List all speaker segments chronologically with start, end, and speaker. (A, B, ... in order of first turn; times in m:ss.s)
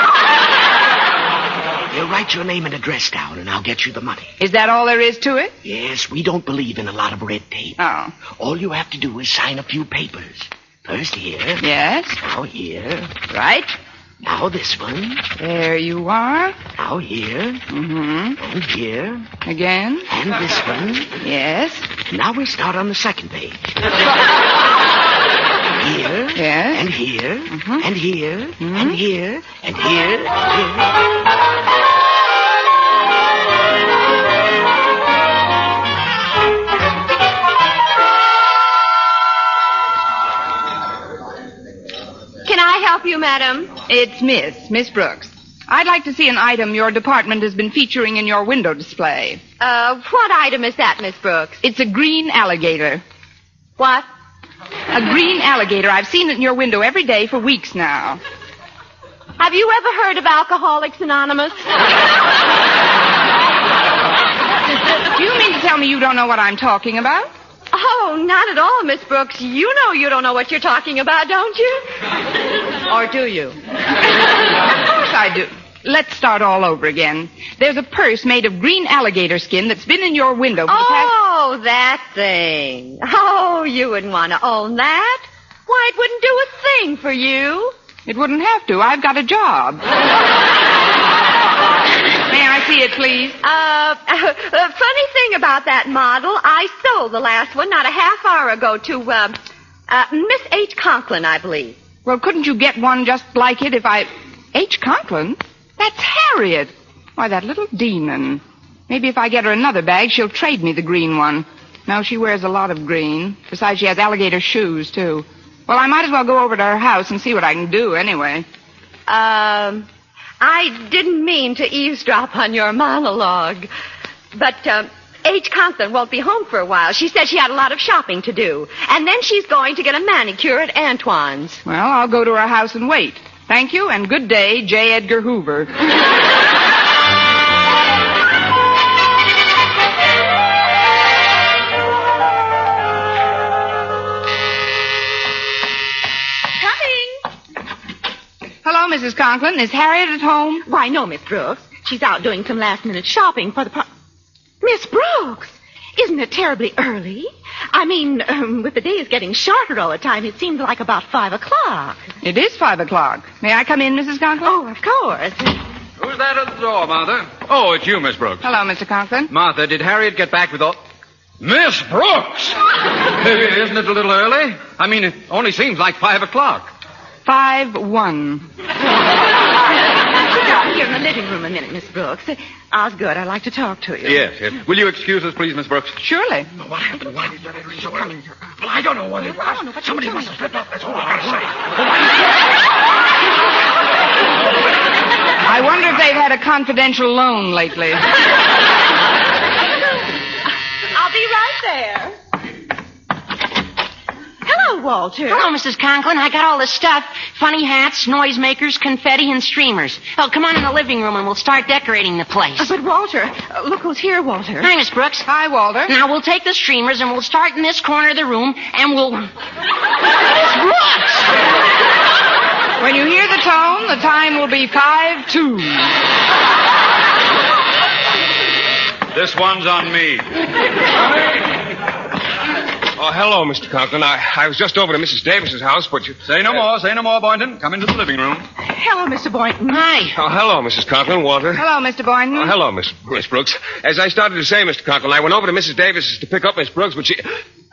0:01.9-0:04.3 A
0:04.4-0:05.5 B
0:05.6-0:07.8 A
0:07.8-0:08.2 B
0:08.3-0:11.6 A
0:11.6-0:12.2 B
0:12.2-0:13.1 A
0:13.3-0:13.7 B
0:14.2-0:15.2 A
0:15.4-0:16.6 B
0:16.8-0:17.6 A
0:17.7-0:18.4 B
0:18.4-0:19.3 A
0:19.4-0:20.1 B
0:20.1-0:21.1 A
0:21.2-0:21.9 B
0:22.1-0:23.9 A
0:25.8-0:31.0 A
0:26.3-0:26.9 B
0:27.5-0:27.8 B
0:28.6-0:29.0 B
0:42.4-0:43.7 C
0:43.9-0:49.4 B
0:49.6-0:51.6 C
0:51.6-0:53.0 B
0:53.8-0:54.0 C
0:54.9-0:58.2 B
0:59.4-1:01.6 C
1:05.1-1:07.3 B
1:07.7-1:11.8 C
1:12.9-1:13.6 C
1:14.8-1:21.1 B
1:20.7-1:27.7 C
1:28.1-1:29.8 B
1:32.3-1:33.4 B
1:33.4-1:41.8 C
1:42.0-1:58.4 B
1:59.1-1:59.9 C
2:00.4-2:03.7 C
2:04.3-2:11.6 C
2:11.6-2:15.7 B
2:28.6-2:30.6 B
2:30.6-2:33.9 C
2:34.6-2:42.1 C
2:42.2-2:44.5 B
2:44.4-2:45.6 C
2:46.0-2:48.4 D
2:48.4-2:49.3 B
2:49.3-2:50.8 D
2:51.4-2:56.7 D
2:57.2-2:58.4 B
2:59.9-3:04.2 C
3:04.0-3:06.0 D
3:06.0-3:06.5 B
3:06.6-3:11.9 A
3:09.2-3:10.4 C
3:15.4-3:18.0 B
3:20.9-3:22.2 C
3:24.4-3:25.5 C
3:25.3-3:32.7 E
3:32.6-3:34.7 C
3:34.6-3:35.3 E
3:35.2-3:35.9 B
3:35.8-3:39.3 E
3:40.6-3:40.9 D
3:42.8-3:45.9 B
3:49.1-3:50.4 D
3:53.0-3:56.2 F
3:56.2-3:58.4 D
3:58.6-3:59.8 C
3:59.7-4:00.2 E
4:00.1-4:01.6 F
4:01.6-4:02.5 B
4:02.3-4:07.3 F